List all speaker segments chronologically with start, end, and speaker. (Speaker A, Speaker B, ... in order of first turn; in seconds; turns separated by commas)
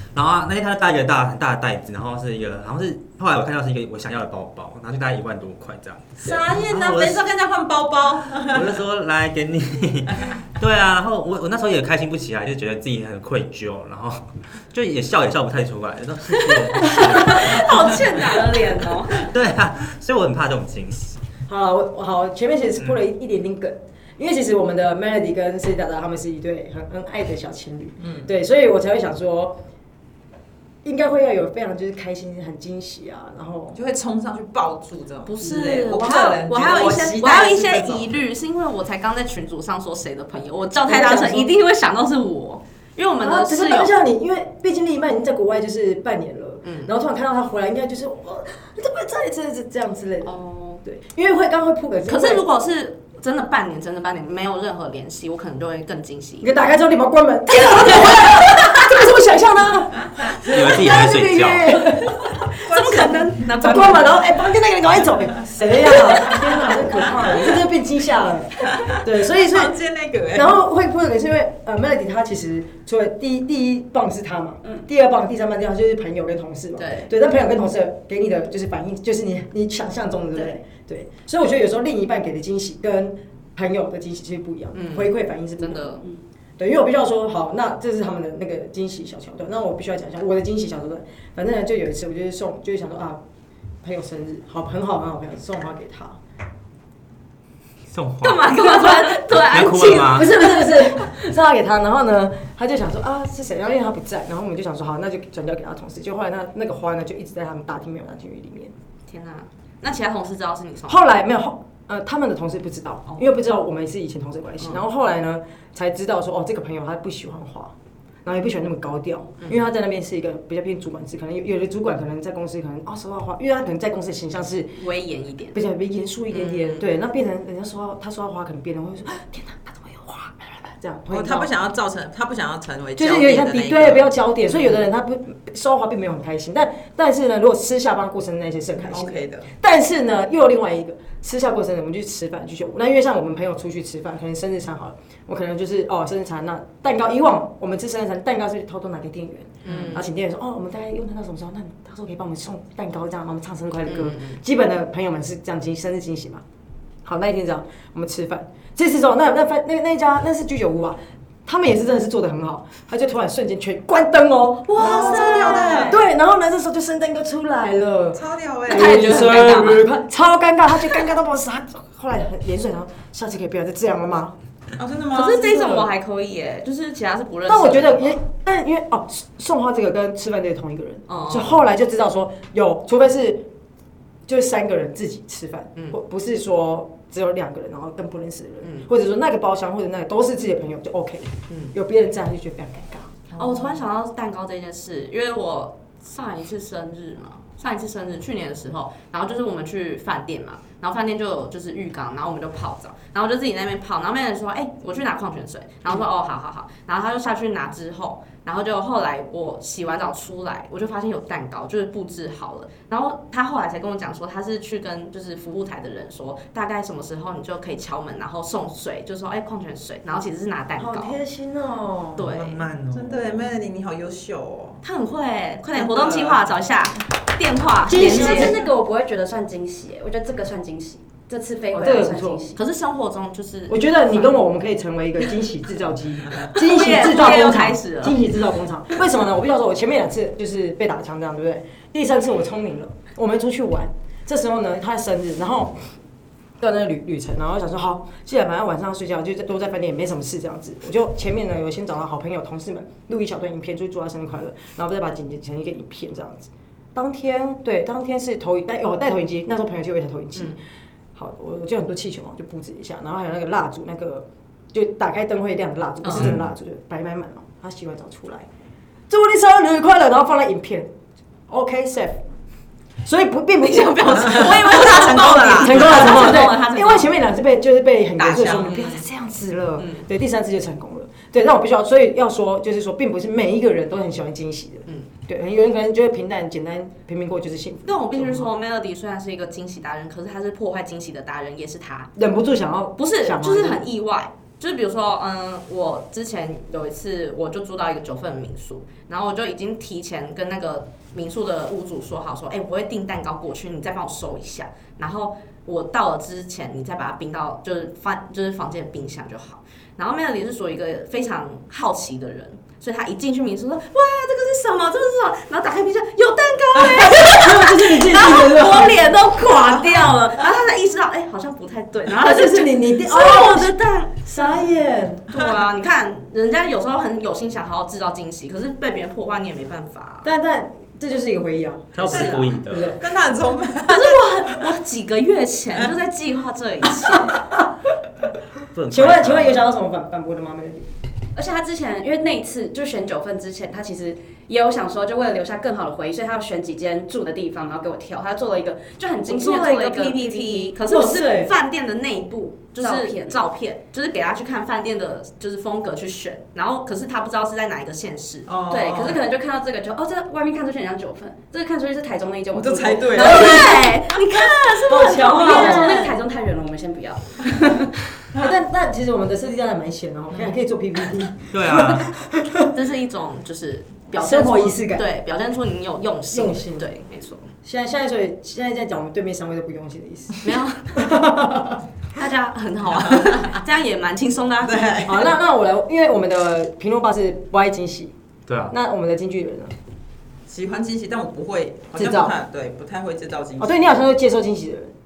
Speaker A: 0.1-7.2, Speaker B: 6.2-8.8, Speaker A: 8.4-18.2, Speaker C: 16.8-19.3, Speaker A: 19.1-21.2, Speaker D: 21.5-29.6, Speaker B: 28.0-28.3, Speaker D: 30.8-33.8, Speaker B: 33.7-38.2, Speaker C: 35.3-43.9, Speaker D: 40.9-41.5, Speaker D: 43.2-52.4, Speaker C: 46.6-46.9, Speaker C: 50.2-50.8, Speaker C: 52.1-56.5, Speaker D: 56.4-62.4, Speaker C: 57.5-58.7, Speaker A: 60.5-61.8, Speaker C: 62.6-64.1, Speaker B: 62.6-63.3, Speaker D: 63.5-69.7, Speaker B: 68.8-70.5, Speaker D: 70.3-85.9, Speaker C: 76.8-77.1, Speaker C: 84.7-86.0, Speaker D: 86.6-93.2, Speaker D: 93.8-96.2, Speaker A: 97.9-100.3, Speaker C: 98.2-100.7, Speaker D: 100.0-108.7, Speaker C: 109.1-111.0, Speaker D: 110.9-117.7, Speaker D: 118.2-124.8, Speaker C: 124.8-125.6, Speaker D: 125.5-131.5, Speaker C: 126.3-126.8, Speaker B: 131.1-134.1, Speaker D: 133.0-156.4, Speaker B: 138.9-139.5, Speaker C: 149.6-150.1, Speaker C: 153.9-154.4, Speaker D: 157.1-174.4, Speaker C: 164.7-166.0, Speaker B: 164.8-166.0, Speaker B: 168.1-169.1, Speaker C: 168.7-169.9, Speaker B: 174.8-175.9, Speaker C: 175.1-178.2, Speaker D: 177.5-183.5, Speaker C: 181.1-181.6, Speaker D: 184.3-193.7, Speaker C: 188.6-188.9, Speaker C: 193.4-221.2, Speaker D: 220.8-222.3, Speaker C: 222.2-222.7, Speaker A: 222.2-223.6, Speaker B: 222.9-224.8, Speaker C: 224.8-228.6, Speaker B: 225.7-226.4, Speaker D: 227.8-228.7, Speaker E: 227.9-232.6, Speaker D: 231.7-232.4, Speaker C: 232.6-234.4, Speaker D: 233.7-245.8, Speaker C: 236.4-238.2, Speaker D: 246.6-260.6, Speaker D: 261.1-268.5, Speaker C: 266.0-266.4, Speaker A: 266.1-266.4, Speaker D: 269.1-270.9, Speaker D: 271.5-272.2, Speaker D: 273.1-274.8, Speaker C: 273.6-277.1, Speaker B: 274.3-276.3, Speaker D: 275.5-288.5, Speaker B: 278.2-278.7, Speaker C: 278.4-279.0, Speaker C: 279.8-280.0, Speaker C: 287.9-292.1, Speaker D: 292.2-293.9, Speaker C: 293.0-324.4, Speaker D: 316.8-319.1, Speaker D: 322.1-325.3, Speaker C: 325.3-330.3, Speaker D: 330.2-333.0, Speaker A: 331.9-333.0, Speaker B: 332.1-334.2, Speaker C: 333.9-337.4, Speaker D: 337.1-337.7, Speaker A: 338.7-339.6, Speaker D: 338.9-340.9, Speaker E: 341.4-350.8, Speaker C: 349.3-358.5, Speaker D: 350.9-351.5, Speaker E: 352.8-353.4, Speaker B: 358.5-359.2, Speaker E: 358.7-363.8, Speaker B: 362.5-363.6, Speaker C: 363.1-366.1, Speaker D: 364.9-366.1, Speaker E: 365.1-367.9, Speaker D: 368.4-372.7, Speaker A: 371.5-372.1, Speaker C: 372.7-377.5, Speaker D: 374.1-375.1, Speaker D: 376.3-376.9, Speaker D: 377.6-380.4, Speaker C: 380.4-381.0, Speaker D: 380.9-381.8, Speaker C: 382.1-385.0, Speaker B: 383.0-383.6, Speaker B: 384.6-385.3, Speaker D: 385.1-388.1, Speaker A: 388.5-388.8, Speaker D: 388.7-389.7, Speaker B: 390.5-393.8, Speaker D: 391.9-392.3, Speaker D: 393.6-394.9